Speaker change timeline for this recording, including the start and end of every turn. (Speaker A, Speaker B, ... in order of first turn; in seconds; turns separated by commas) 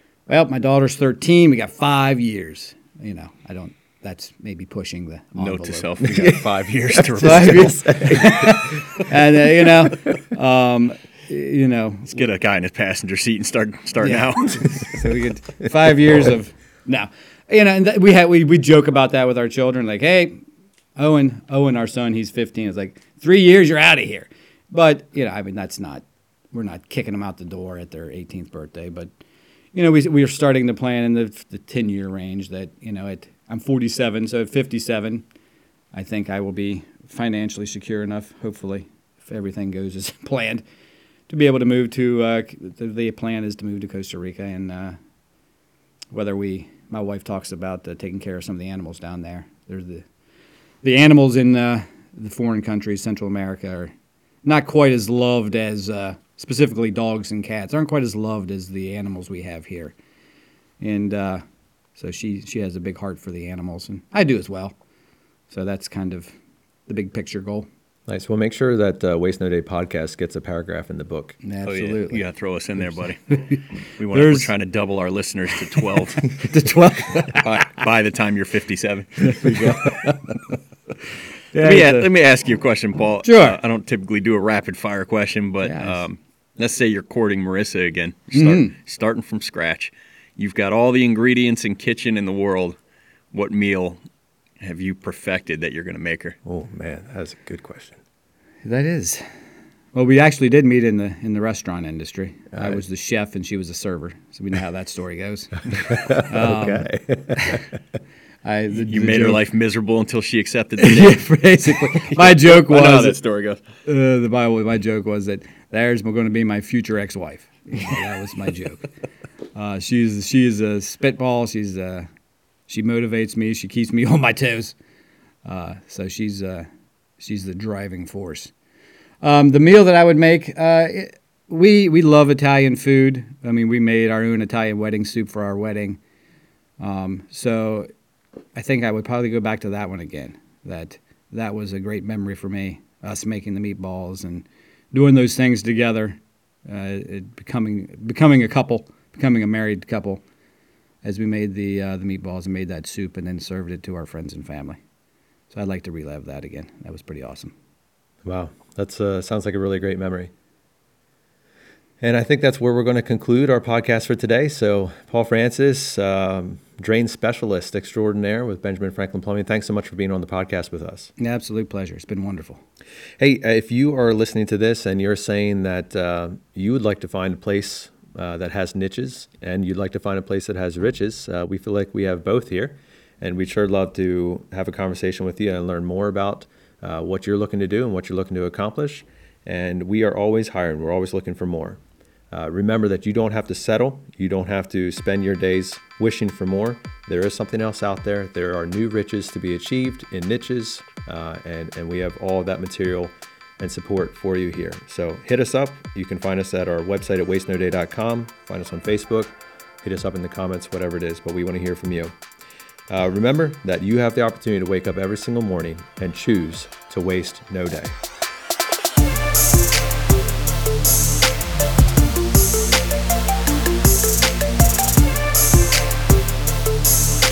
Speaker A: 0.3-6.0, Speaker B: 5.4-7.8, Speaker C: 6.0-6.4, Speaker C: 7.0-8.8, Speaker A: 7.2-12.2, Speaker B: 12.1-15.0, Speaker A: 14.0-20.4, Speaker A: 20.9-29.1, Speaker A: 29.7-35.2, Speaker A: 35.9-40.6, Speaker A: 41.3-45.0, Speaker A: 46.1-50.0, Speaker A: 50.8-53.9, Speaker A: 54.4-59.9, Speaker A: 60.8-61.4, Speaker A: 62.0-64.7, Speaker A: 65.5-66.3, Speaker A: 66.9-67.7, Speaker C: 68.1-71.4, Speaker A: 71.4-72.2, Speaker B: 71.6-76.5, Speaker A: 72.8-74.5, Speaker A: 76.2-77.6, Speaker B: 77.3-79.9, Speaker A: 79.3-80.2, Speaker A: 81.5-82.1, Speaker B: 81.5-92.8, Speaker A: 83.2-83.6, Speaker A: 85.6-86.0, Speaker A: 88.3-88.7, Speaker B: 93.3-94.0, Speaker B: 94.6-96.4, Speaker C: 96.4-98.0, Speaker A: 98.6-99.2, Speaker A: 99.9-107.7, Speaker C: 102.5-102.8, Speaker C: 105.9-107.7, Speaker A: 108.4-109.4, Speaker B: 108.8-113.6, Speaker A: 110.8-113.2, Speaker A: 113.8-118.8, Speaker A: 119.5-122.1, Speaker A: 122.7-124.7, Speaker A: 125.4-126.7, Speaker A: 127.2-128.5, Speaker A: 129.2-136.0, Speaker A: 136.8-137.9, Speaker A: 138.5-150.2, Speaker A: 151.0-154.8, Speaker A: 155.5-157.5, Speaker C: 158.2-160.3, Speaker C: 162.0-171.1, Speaker A: 171.2-172.6, Speaker C: 173.2-212.2, Speaker C: 212.9-218.0